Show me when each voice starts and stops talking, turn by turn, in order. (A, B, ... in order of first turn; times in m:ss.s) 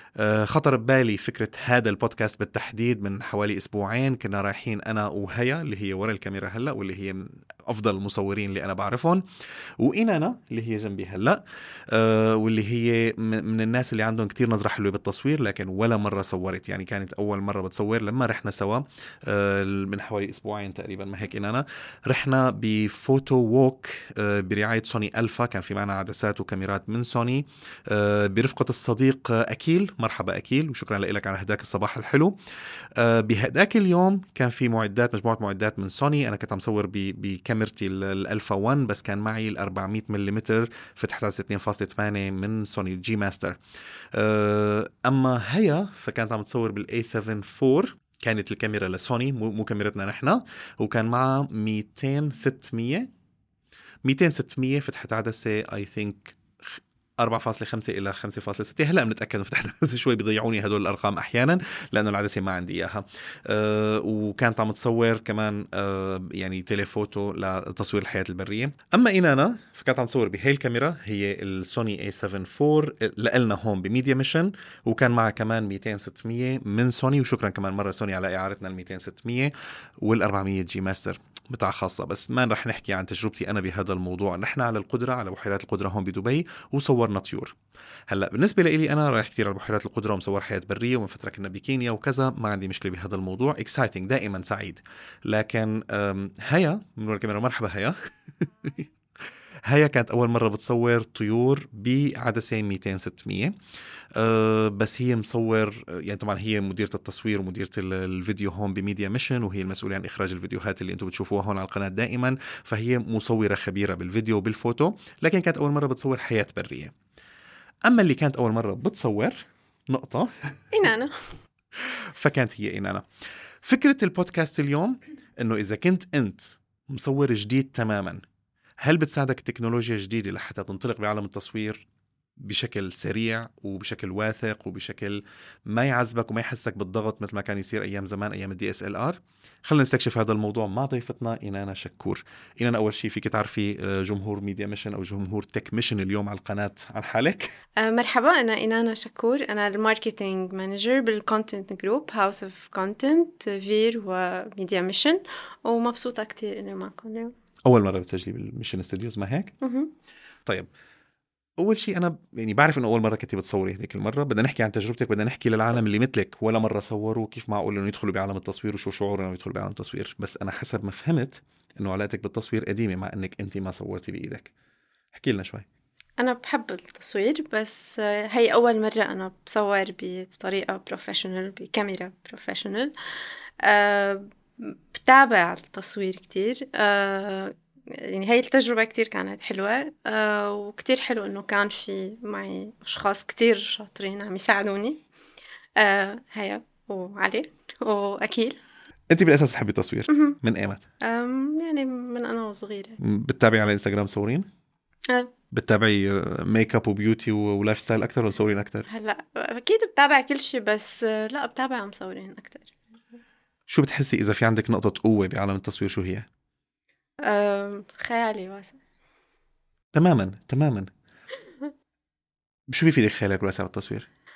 0:00.2-0:09.2 A
0:09.8-0:32.3 A
0:32.9-0:43.6 A
0:44.1-0:53.1 A
0:54.0-1:27.6 A
1:28.1-1:43.5 A
1:44.1-1:56.9 A
1:57.8-2:00.3 A
2:00.7-2:01.1 B
2:01.8-2:03.0 A
2:03.6-2:08.2 A
2:08.8-2:11.8 A
2:12.4-2:27.5 A
2:27.8-2:37.3 B
2:37.7-2:39.5 A
2:39.6-2:39.9 B
2:41.6-2:54.5 A
2:55.1-2:55.6 A
2:56.2-3:02.9 B
3:03.6-3:15.0 B
3:15.8-3:18.6 B
3:19.1-3:20.8 A
3:20.1-3:20.4 B
3:21.0-3:23.0 B
3:23.0-3:24.5 A
3:25.5-3:28.9 A
3:28.9-3:32.7 B
3:33.7-3:36.3 A
3:37.2-3:38.8 B
3:39.9-3:40.9 A
3:42.7-3:44.1 A